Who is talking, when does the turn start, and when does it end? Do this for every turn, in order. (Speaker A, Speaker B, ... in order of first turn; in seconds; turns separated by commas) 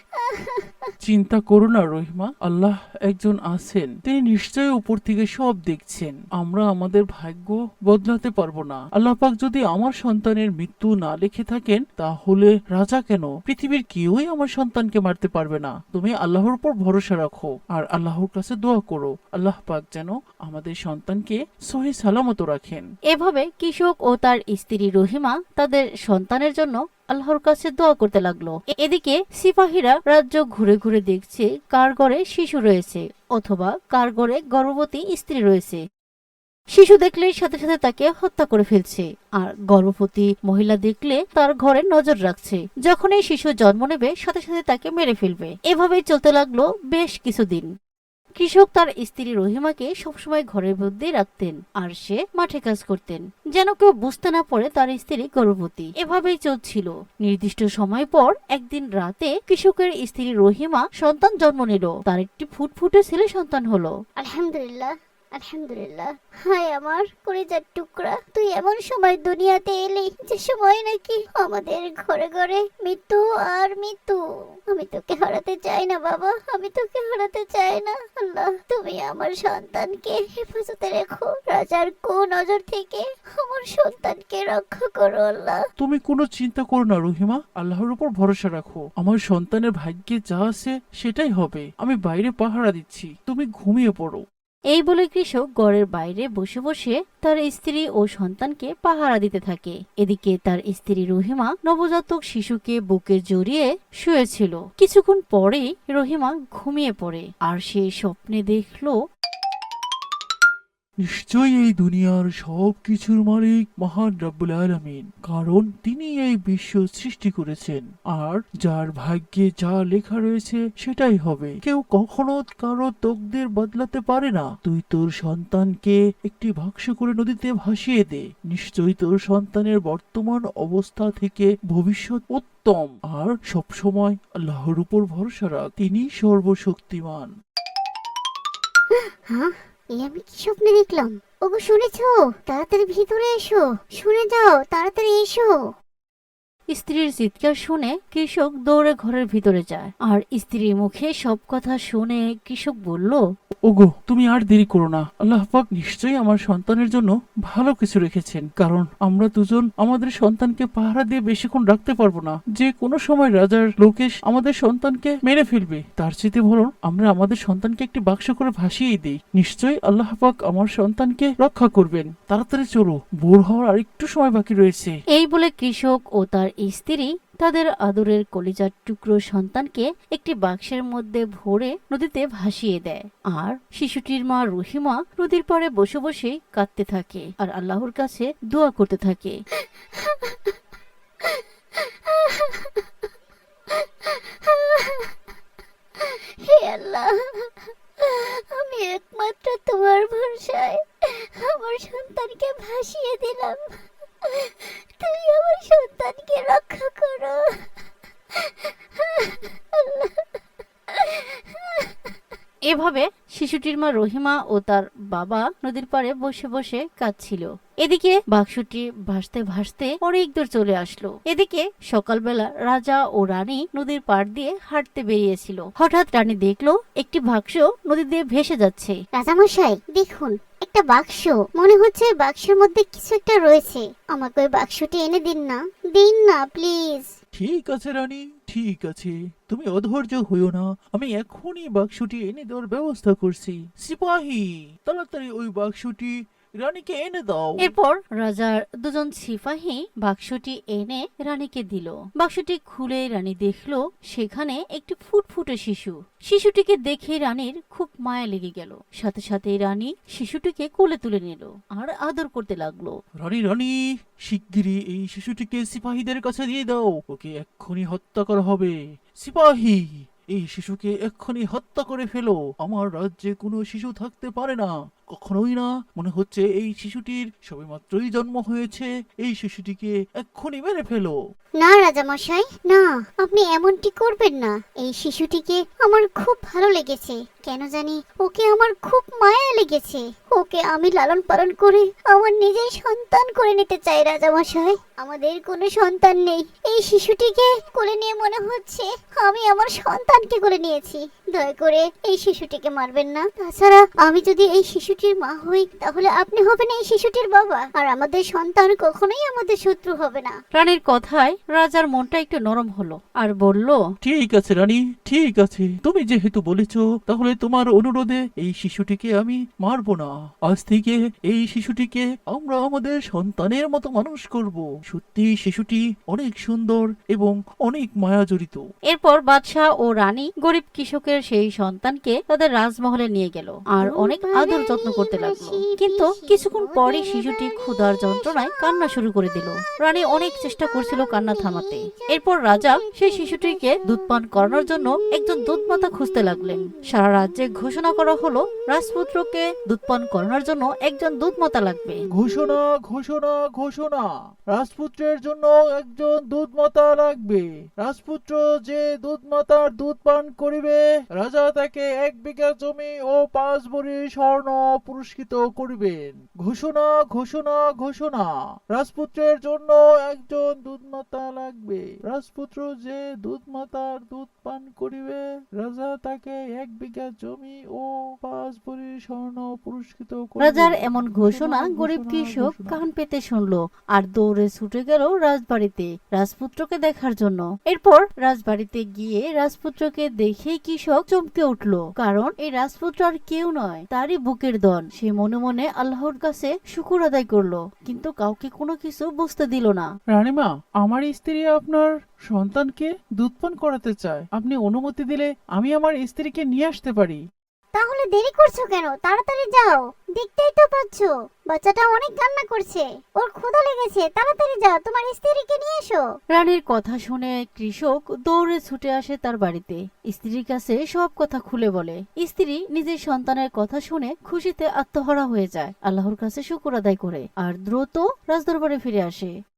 Speaker A: 0.2-0.8, Speaker B: 1.0-22.9, Speaker C: 23.1-35.8, Speaker C: 36.7-47.7, Speaker C: 48.4-63.9, Speaker A: 64.2-74.2, Speaker A: 74.7-85.6, Speaker B: 85.8-94.2, Speaker C: 94.7-108.9, Speaker B: 111.0-137.3, Speaker A: 139.3-145.5, Speaker C: 146.7-153.2, Speaker B: 153.7-174.9, Speaker C: 175.1-189.3, Speaker A: 189.9-190.5, Speaker A: 191.2-192.8, Speaker A: 193.7-195.1, Speaker A: 196.0-203.7, Speaker A: 204.2-207.8, Speaker A: 208.4-210.3, Speaker A: 211.0-212.1, Speaker C: 212.7-228.9, Speaker A: 229.1-237.1, Speaker B: 237.3-247.7, Speaker C: 247.6-262.9, Speaker B: 263.2-263.7, Speaker B: 264.2-281.2, Speaker A: 281.6-310.3, Speaker C: 310.5-313.8, Speaker B: 314.0-328.6, Speaker C: 328.9-352.1, Speaker A: 333.8-338.9, Speaker A: 340.0-346.9, Speaker B: 352.1-382.8, Speaker C: 380.4-399.9, Speaker B: 400.1-407.2, Speaker A: 407.8-416.0, Speaker C: 416.3-429.3